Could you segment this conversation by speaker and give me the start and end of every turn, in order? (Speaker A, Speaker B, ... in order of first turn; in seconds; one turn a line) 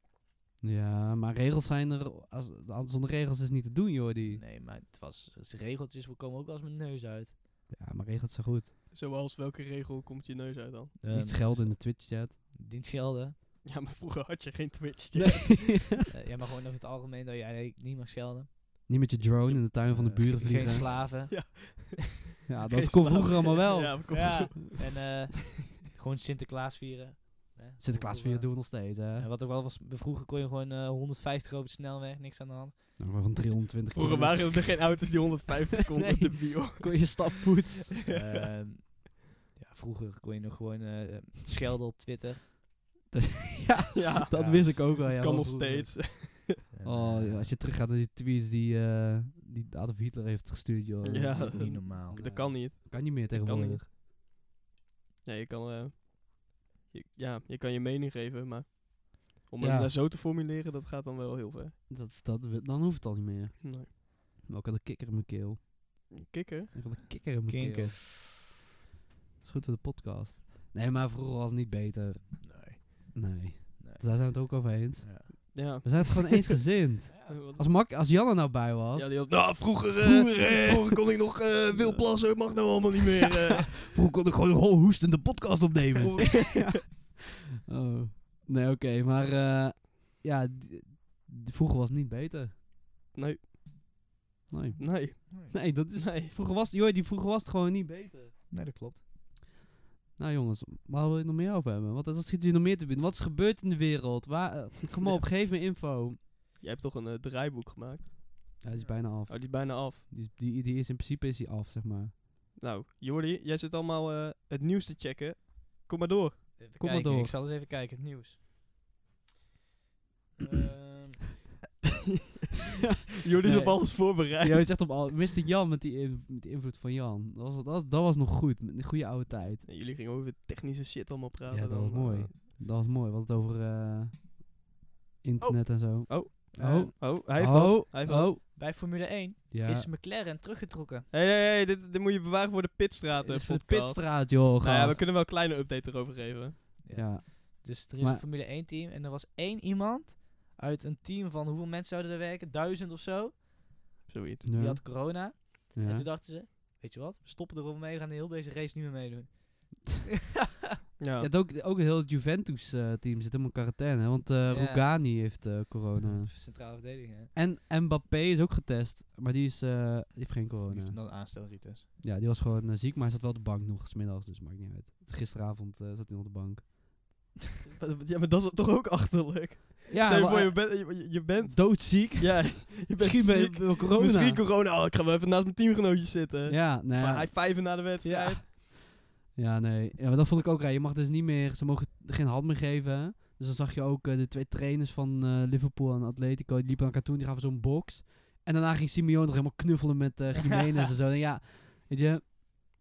Speaker A: 0.6-4.4
Speaker B: 4.3-7.4
Speaker A: 7.7-8.7
Speaker C: 8.9-11.0
Speaker B: 11.0-13.4
Speaker A: 11.1-12.4
Speaker C: 13.6-15.8
Speaker A: 15.2-16.1
Speaker B: 16.1-18.5
Speaker A: 18.9-20.9
Speaker B: 19.9-21.9
Speaker C: 20.6-25.1
Speaker A: 22.5-24.5
Speaker B: 24.1-33.3
Speaker A: 27.8-29.3
Speaker A: 33.0-34.9
Speaker C: 33.9-37.2
Speaker A: 35.9-38.0
Speaker B: 38.1-42.4
Speaker A: 43.1-53.9
Speaker C: 44.0-46.6
Speaker B: 44.3-44.7
Speaker B: 46.7-47.5
Speaker C: 51.0-53.8
Speaker B: 51.2-52.4
Speaker C: 55.2-61.7
Speaker A: 59.6-59.9
Speaker A: 61.9-65.6
Speaker C: 63.6-63.9
Speaker C: 66.1-66.7
Speaker A: 66.7-68.0
Speaker B: 67.5-68.2
Speaker A: 69.4-81.0
Speaker B: 72.4-75.5
Speaker C: 75.5-76.5
Speaker B: 77.1-77.4
Speaker C: 77.3-77.7
Speaker C: 79.0-83.9
Speaker A: 81.7-82.1
Speaker A: 83.9-92.6
Speaker C: 86.0-86.8
Speaker C: 93.1-93.4
Speaker A: 94.5-98.3
Speaker C: 94.8-96.3
Speaker B: 95.3-95.6
Speaker B: 98.5-99.0
Speaker A: 100.2-106.2
Speaker C: 106.6-108.5
Speaker A: 108.6-112.2
Speaker C: 109.3-110.0
Speaker C: 112.6-116.5
Speaker B: 116.6-118.4
Speaker A: 116.8-117.3
Speaker B: 120.4-121.3
Speaker C: 123.2-124.8
Speaker A: 123.4-129.7
Speaker C: 129.7-132.3
Speaker A: 131.5-134.4
Speaker A: 135.2-138.6
Speaker B: 135.4-135.8
Speaker C: 136.1-138.3
Speaker B: 136.3-136.9
Speaker B: 138.4-141.1
Speaker A: 139.5-139.9
Speaker C: 141.1-146.6
Speaker A: 143.2-145.1
Speaker B: 146.8-153.5
Speaker A: 146.9-148.2
Speaker C: 154.1-154.5
Speaker A: 154.4-156.1
Speaker B: 154.5-160.0
Speaker C: 161.0-161.3
Speaker A: 161.2-171.1
Speaker B: 164.5-164.9
Speaker B: 166.0-167.3
Speaker B: 170.7-171.9
Speaker A: 172.0-176.7
Speaker C: 177.7-188.5
Speaker A: 179.9-184.4
Speaker A: 186.5-202.3